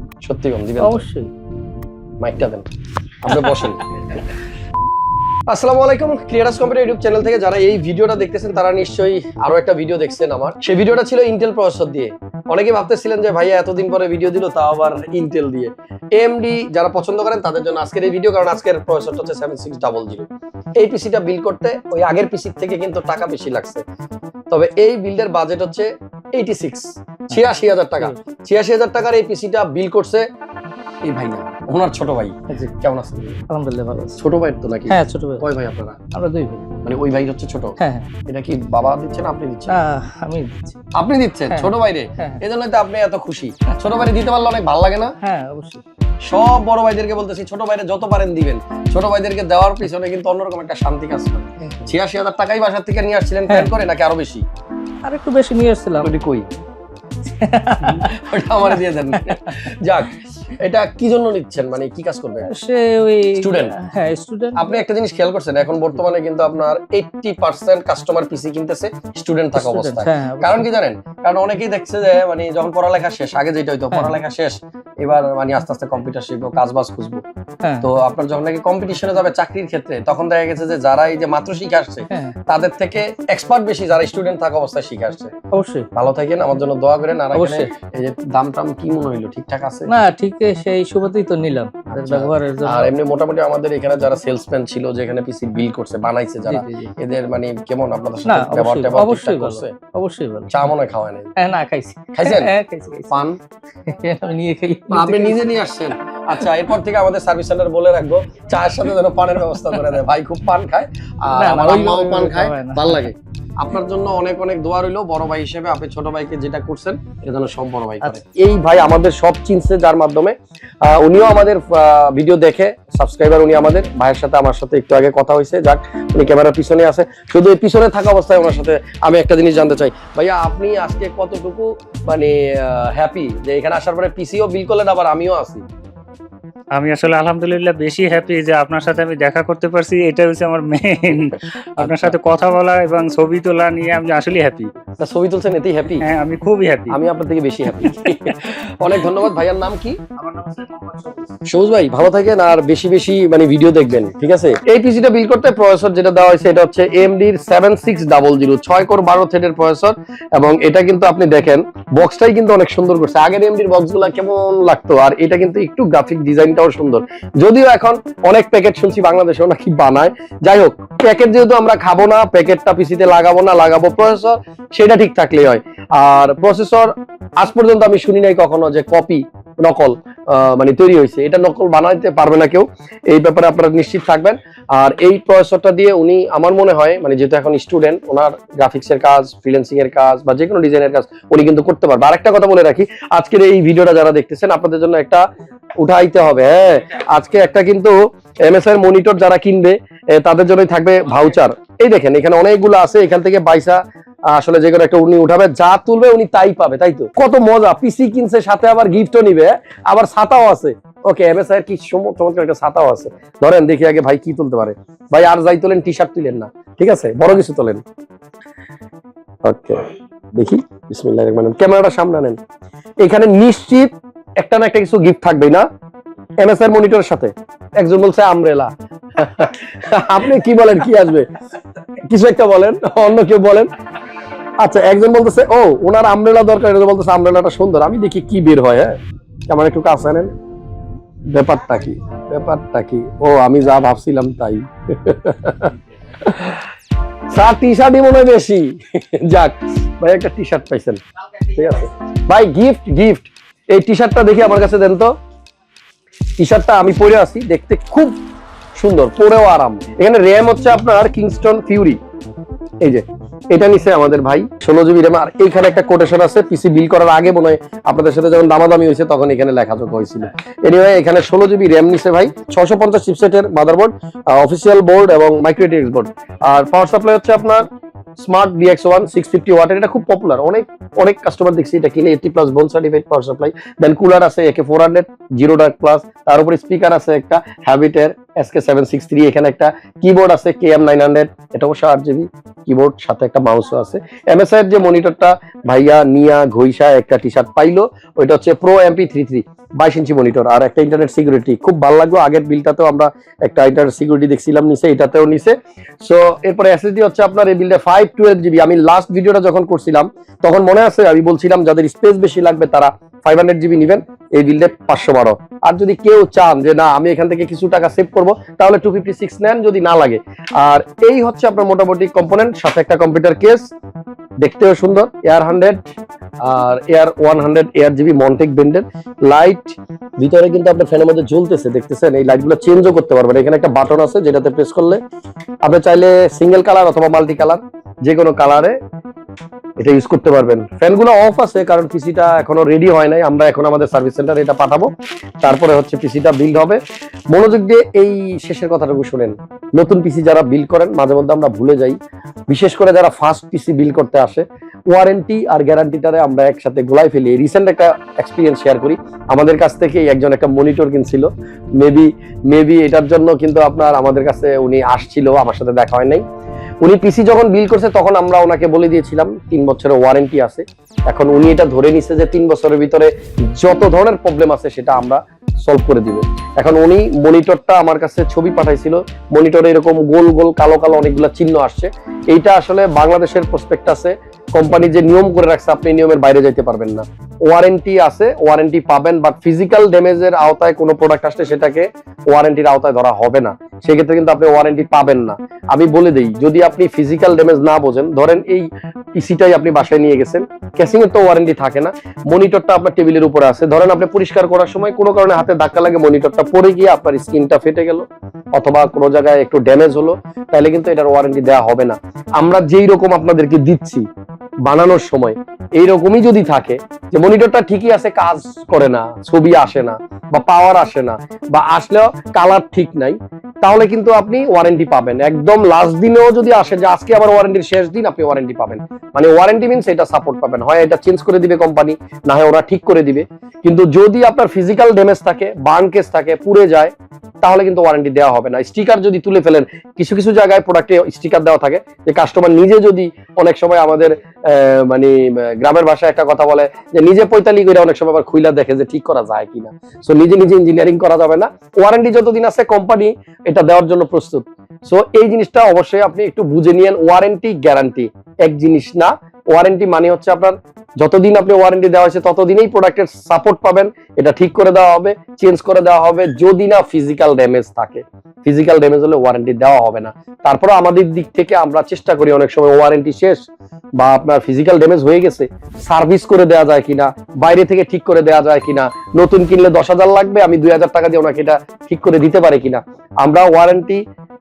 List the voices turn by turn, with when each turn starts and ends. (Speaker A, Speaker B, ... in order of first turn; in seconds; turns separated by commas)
Speaker A: 0.2-1.0, Speaker B: 0.8-1.3, Speaker A: 2.2-2.6, Speaker A: 3.2-4.2, Speaker A: 5.5-23.8, Speaker A: 24.5-30.2, Speaker B: 27.3-28.1, Speaker A: 31.0-33.5, Speaker B: 33.5-34.2, Speaker A: 34.1-36.0, Speaker B: 34.9-35.5, Speaker B: 36.1-36.7, Speaker A: 36.8-39.8, Speaker B: 37.8-38.1, Speaker B: 39.7-40.8, Speaker A: 41.0-45.1, Speaker B: 41.5-42.4, Speaker B: 45.2-45.8, Speaker A: 46.2-54.4, Speaker B: 51.6-51.9, Speaker B: 55.0-56.1, Speaker A: 56.0-56.5, Speaker B: 57.2-59.4, Speaker A: 57.8-62.5, Speaker B: 62.5-64.7, Speaker A: 63.4-63.8, Speaker A: 64.6-77.2, Speaker B: 69.5-70.7, Speaker B: 73.9-74.2, Speaker B: 77.6-77.9, Speaker A: 77.8-85.3, Speaker B: 82.1-82.3, Speaker B: 85.5-85.9, Speaker A: 85.9-89.9, Speaker B: 87.3-87.7, Speaker B: 89.9-93.0, Speaker A: 91.9-99.8, Speaker B: 96.5-96.9, Speaker B: 98.2-100.6, Speaker A: 100.5-101.3, Speaker B: 101.4-103.1, Speaker A: 102.2-102.5, Speaker A: 103.1-103.4, Speaker B: 103.8-105.5, Speaker A: 104.9-135.6, Speaker B: 111.3-113.1, Speaker C: 136.7-144.7, Speaker A: 141.8-142.1, Speaker A: 145.0-146.1, Speaker C: 146.0-147.0, Speaker A: 146.9-150.0, Speaker C: 150.2-151.2, Speaker A: 151.5-195.2, Speaker A: 195.8-217.8, Speaker A: 219.4-222.4, Speaker A: 223.0-225.7, Speaker A: 226.4-231.3, Speaker A: 232.1-233.7, Speaker A: 234.6-239.0, Speaker A: 239.5-240.3, Speaker A: 241.3-246.6, Speaker A: 247.3-255.1, Speaker A: 256.4-258.1, Speaker A: 258.8-262.0, Speaker A: 262.8-277.6, Speaker A: 278.2-323.7, Speaker A: 324.4-325.9, Speaker A: 326.4-335.0, Speaker A: 335.6-338.8, Speaker A: 339.8-344.9, Speaker A: 345.4-346.8, Speaker A: 347.3-352.0, Speaker A: 352.5-366.2, Speaker A: 366.8-414.0, Speaker A: 414.6-436.9, Speaker A: 437.4-473.4, Speaker A: 474.0-484.0